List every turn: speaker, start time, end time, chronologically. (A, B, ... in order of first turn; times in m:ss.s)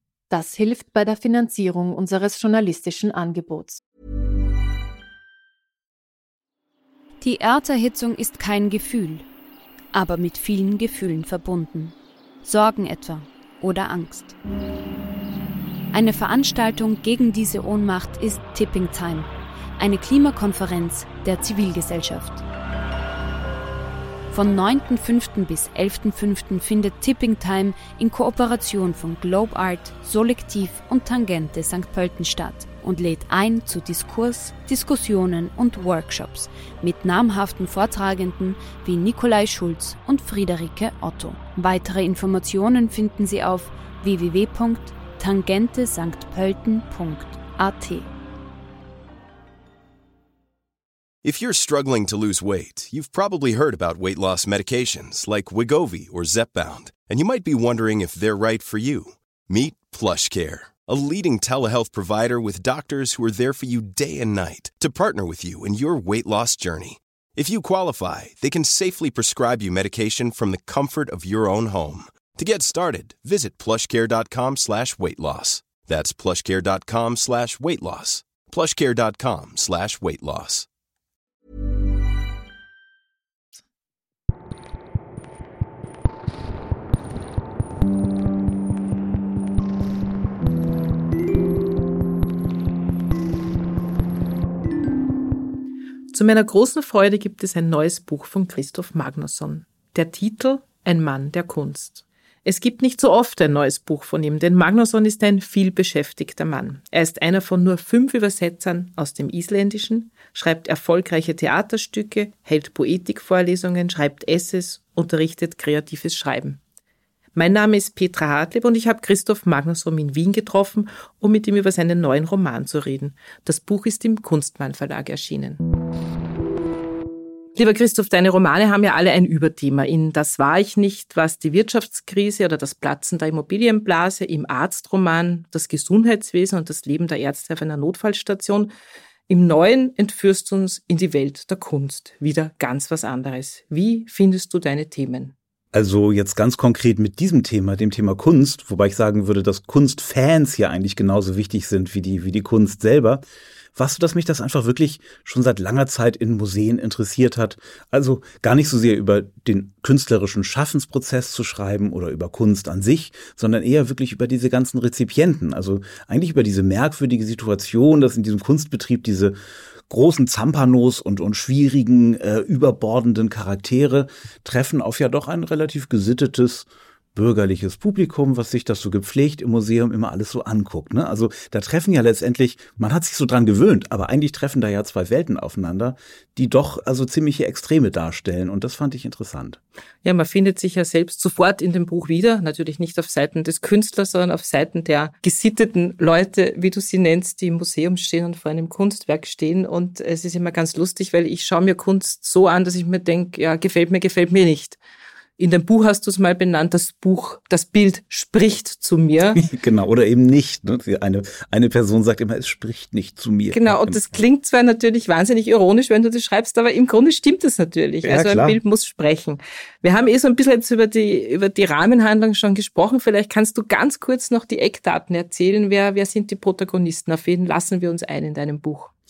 0:00.3-0:03.8 A
0:07.2-0:09.3 B
0:09.9-0:14.4 B
0:15.9-0:22.4 B
0:24.3-0:48.1 B
0:51.2-1:20.7 C
1:36.1-1:56.6 D
1:57.4-2:05.6 D
2:07.6-2:18.7 D
2:19.3-2:25.3 D
2:25.7-2:33.2 E
2:33.8-2:49.4 E
2:49.9-3:09.6 E
3:10.0-3:24.8 D
3:25.4-3:29.4 D
3:29.4-3:34.2 E
3:33.5-3:48.9 D
3:38.0-3:38.6 E